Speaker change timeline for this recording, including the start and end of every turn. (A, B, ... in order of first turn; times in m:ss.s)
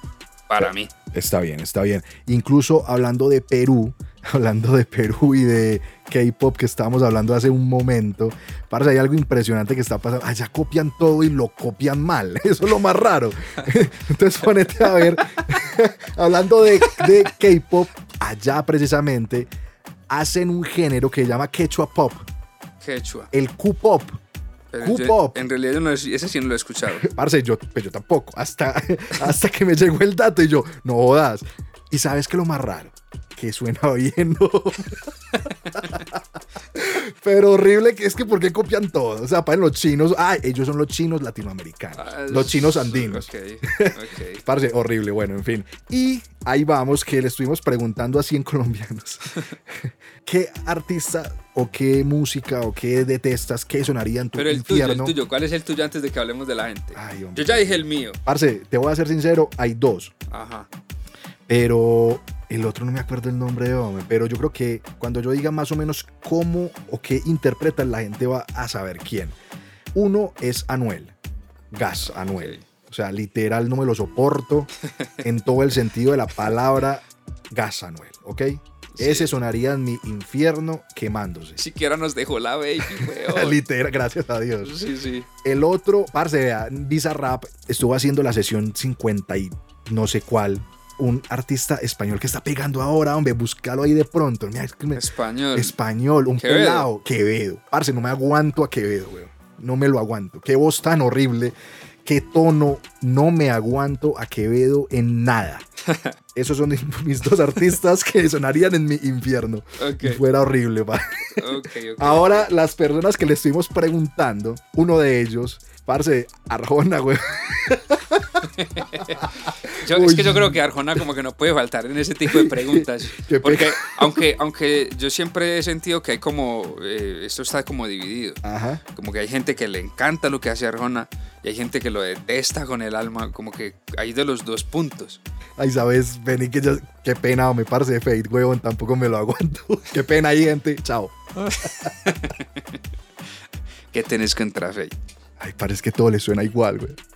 0:00.5-0:00.9 A
0:00.6-0:19.5 B
0:20.1-0:22.3 B
0:22.8-0:23.3 A
0:23.3-0:24.2 B
0:24.7-0:27.1 A
0:24.8-0:25.4 B
0:26.9-0:35.1 B
0:35.8-0:36.2 B
0:36.7-0:55.2 B
0:42.0-0:44.4 A
0:54.4-0:58.2 A
0:56.9-1:00.1 B
1:00.3-1:00.7 A
1:01.5-1:09.4 B
1:09.9-1:11.2 B
1:11.7-1:14.7 B
1:12.0-1:12.6 A
1:15.2-1:21.6 B
1:18.9-1:19.4 A
1:21.6-1:23.6 A
1:22.8-1:24.8 B
1:24.6-1:25.3 A
1:25.4-1:45.6 B
1:35.0-1:35.8 A
1:36.4-1:36.9 A
1:45.9-1:46.1 A
1:46.3-1:51.5 B
1:49.8-1:50.2 A
1:51.4-1:52.5 A
1:52.0-1:59.0 B
1:58.6-2:08.4 A
1:59.9-2:00.6 B
2:02.3-2:04.2 B
2:08.4-2:08.8 B
2:09.0-2:15.2 A
2:15.6-2:21.9 B
2:21.4-2:22.4 A
2:23.9-2:25.0 A
2:25.4-2:27.0 B